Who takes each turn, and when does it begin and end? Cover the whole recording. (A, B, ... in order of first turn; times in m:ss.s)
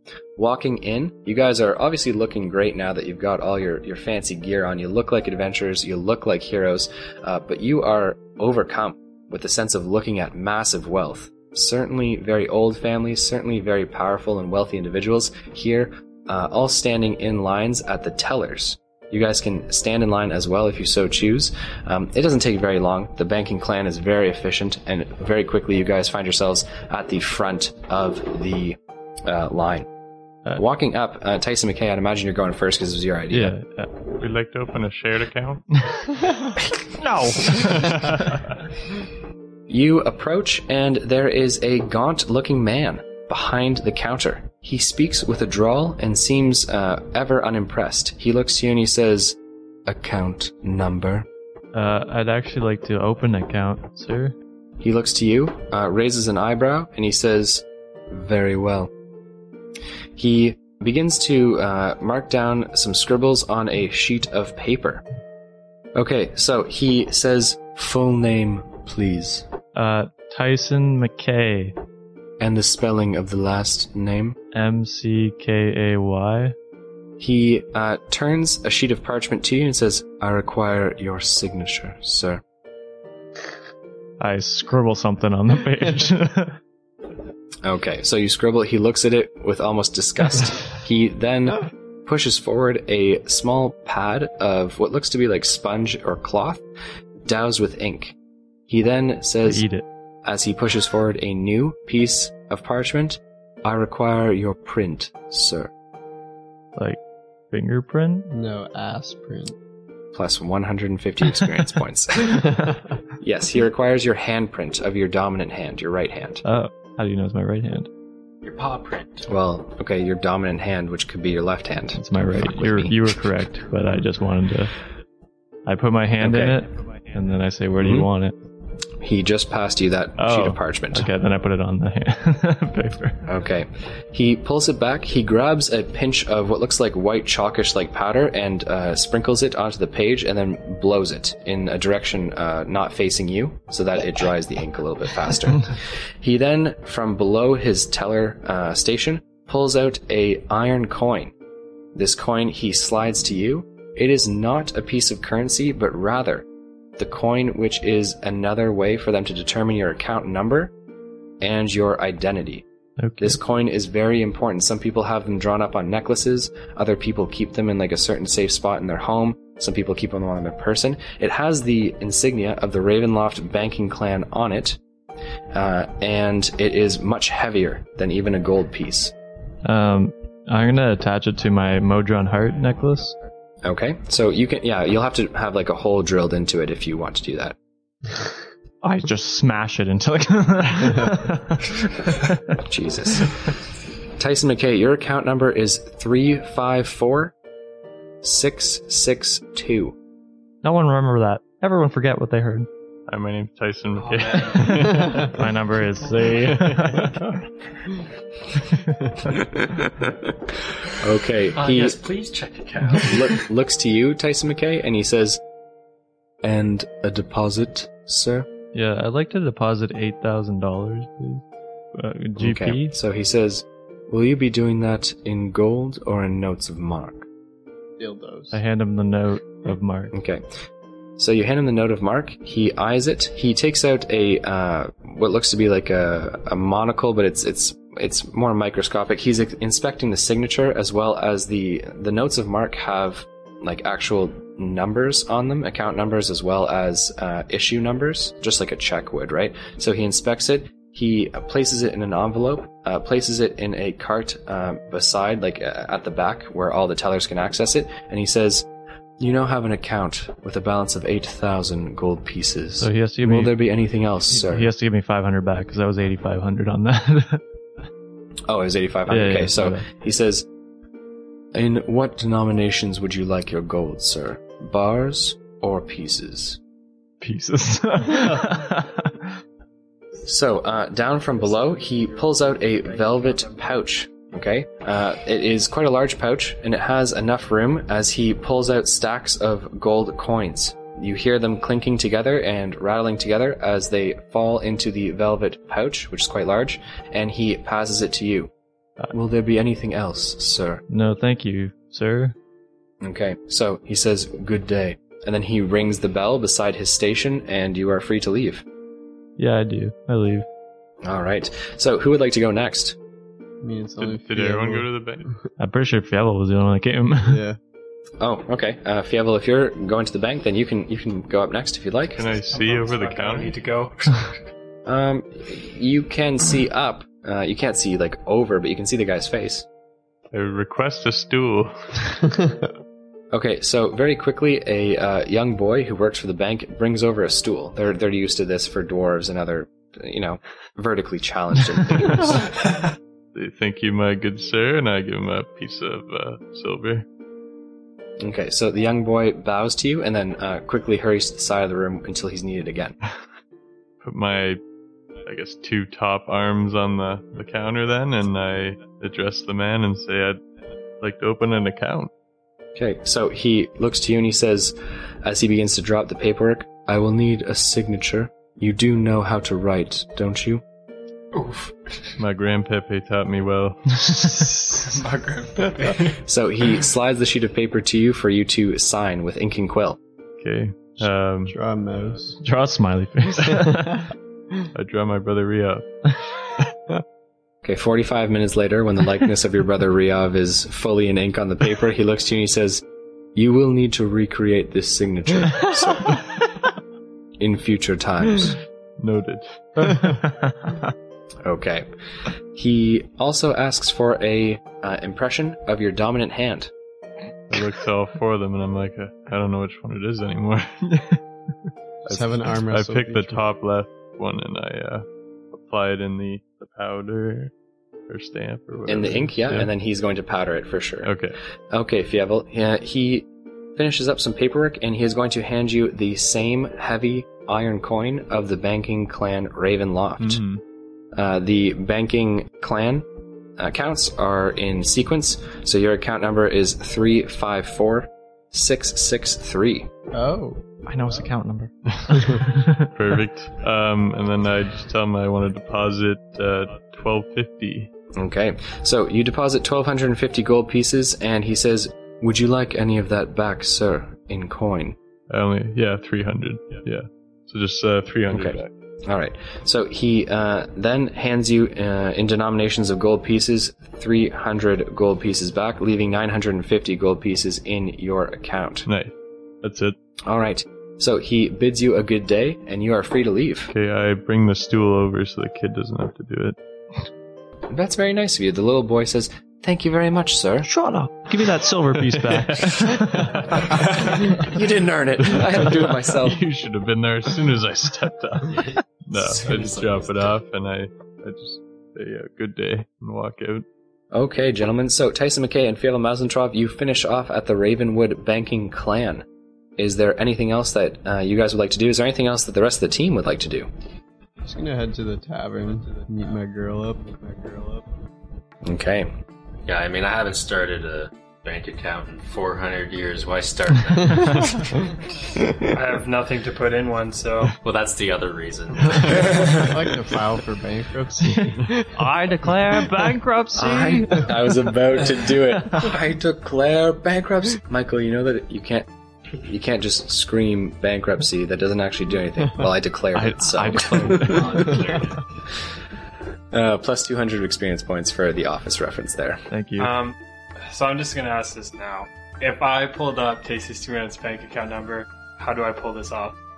0:00.4-0:29.9 A
0:30.6-0:33.6 A
0:33.3-0:33.9 B
0:34.2-0:35.6 C
0:35.9-0:38.4 B
0:37.5-0:38.4 C
0:39.7-0:51.3 A
0:51.7-0:54.4 B
0:54.8-0:58.9 A
1:00.2-1:05.0 A
1:06.0-1:09.5 A
1:09.7-1:11.8 B
1:12.4-1:14.4 A
1:14.5-1:16.6 B
1:17.2-1:22.4 A
1:24.2-1:26.6 B
1:27.6-1:36.6 A
1:37.2-1:38.2 A
1:38.7-1:39.6 A
1:39.4-1:39.8 B
1:40.2-1:45.7 A
1:46.8-1:48.3 B
1:48.3-1:49.6 D
1:50.1-1:56.4 A
1:56.4-1:57.9 B
1:58.4-1:59.3 E
1:59.3-2:03.1 A
2:02.0-2:04.7 B
2:05.7-2:08.4 B
2:06.2-2:06.6 A
2:07.8-2:08.1 A
2:09.0-2:11.1 A
2:10.2-2:13.2 B
2:13.3-2:31.3 A
2:32.0-2:40.7 A
2:41.4-2:42.6 A
2:43.0-2:43.4 B
2:43.2-2:54.8 A
2:55.5-2:59.1 A
2:59.6-3:03.2 B
3:03.6-3:07.6 A
3:08.8-3:12.4 B
3:12.6-3:13.6 A
3:14.2-3:17.3 A
3:18.2-3:20.0 A
3:20.6-3:22.7 B
3:23.1-3:25.3 C
3:24.0-3:24.8 F
3:24.5-3:27.2 B
3:29.4-3:30.4 A
3:30.9-3:32.0 A
3:31.6-3:33.4 E
3:33.0-3:35.4 A
3:36.4-3:38.5 A
3:38.7-3:41.4 B
3:41.9-3:43.0 B
3:42.4-3:47.3 A
3:48.0-3:48.6 D
3:48.5-3:50.1 B
3:50.1-3:50.4 A
3:51.2-4:18.7 A
4:19.2-4:24.7 A
4:22.8-4:23.6 B
4:24.3-4:27.4 B
4:28.5-4:30.5 A
4:29.1-4:29.9 B
4:31.5-4:36.6 A
4:37.2-4:39.3 B
4:40.2-4:58.5 A
4:41.4-4:43.7 F
4:59.1-5:00.8 A
5:00.9-5:02.4 B
5:03.0-5:08.6 A
5:09.4-5:10.4 B
5:11.0-5:13.0 A
5:13.6-5:14.9 D
5:14.0-5:15.3 C
5:15.6-5:17.4 B
5:17.2-5:17.6 D
5:18.2-5:22.3 A
5:22.1-5:23.6 C
5:22.5-5:24.3 F
5:24.9-5:29.7 A
5:30.3-5:32.3 C
5:33.3-5:42.5 A
5:43.3-5:47.0 C
5:48.2-5:53.0 A
5:54.0-5:54.6 C
5:55.2-6:00.4 C
6:01.0-6:02.1 C
6:02.8-6:10.6 A
6:11.3-6:11.7 F
6:12.2-6:14.6 C
6:14.0-6:14.8 B
6:14.8-6:16.2 F
6:16.0-6:20.0 A
6:20.4-6:21.6 C
6:21.5-6:22.4 D
6:22.4-6:24.1 B
6:24.7-6:25.8 C
6:27.6-6:36.3 A
6:37.4-6:38.6 A
6:39.0-6:40.2 C
6:39.8-6:40.8 B
6:41.4-6:46.7 A
6:47.5-6:51.2 C
6:52.0-6:53.4 D
6:52.1-6:57.5 C
6:58.1-6:59.7 C
6:58.9-7:01.1 A
7:01.0-7:01.4 C
7:01.7-7:10.4 A
7:10.2-7:10.6 C
7:11.1-7:13.1 A
7:13.6-7:19.9 A
7:20.1-7:20.6 D
7:20.8-7:22.9 B
7:22.1-7:27.9 C
7:28.1-7:35.0 A
7:35.3-7:38.7 C
7:38.3-7:48.9 A
7:48.9-7:50.0 C
7:50.3-7:53.7 A
7:53.7-7:57.0 C
7:57.7-8:00.7 A
8:00.6-8:03.6 B
8:03.8-8:06.4 A
8:06.2-8:13.6 C
8:08.5-8:10.3 E
8:14.1-8:19.2 A
8:19.8-8:23.7 A
8:24.4-8:27.8 D
8:28.6-8:29.1 A
8:29.7-8:34.8 E
8:35.7-8:37.6 F
8:37.6-8:39.7 E
8:39.1-8:42.2 D
8:41.3-8:44.3 B
8:43.6-8:54.4 A
8:53.1-8:54.9 B
8:54.1-8:55.2 E
8:56.5-8:59.4 A
8:59.5-8:59.9 B
8:59.8-9:06.4 F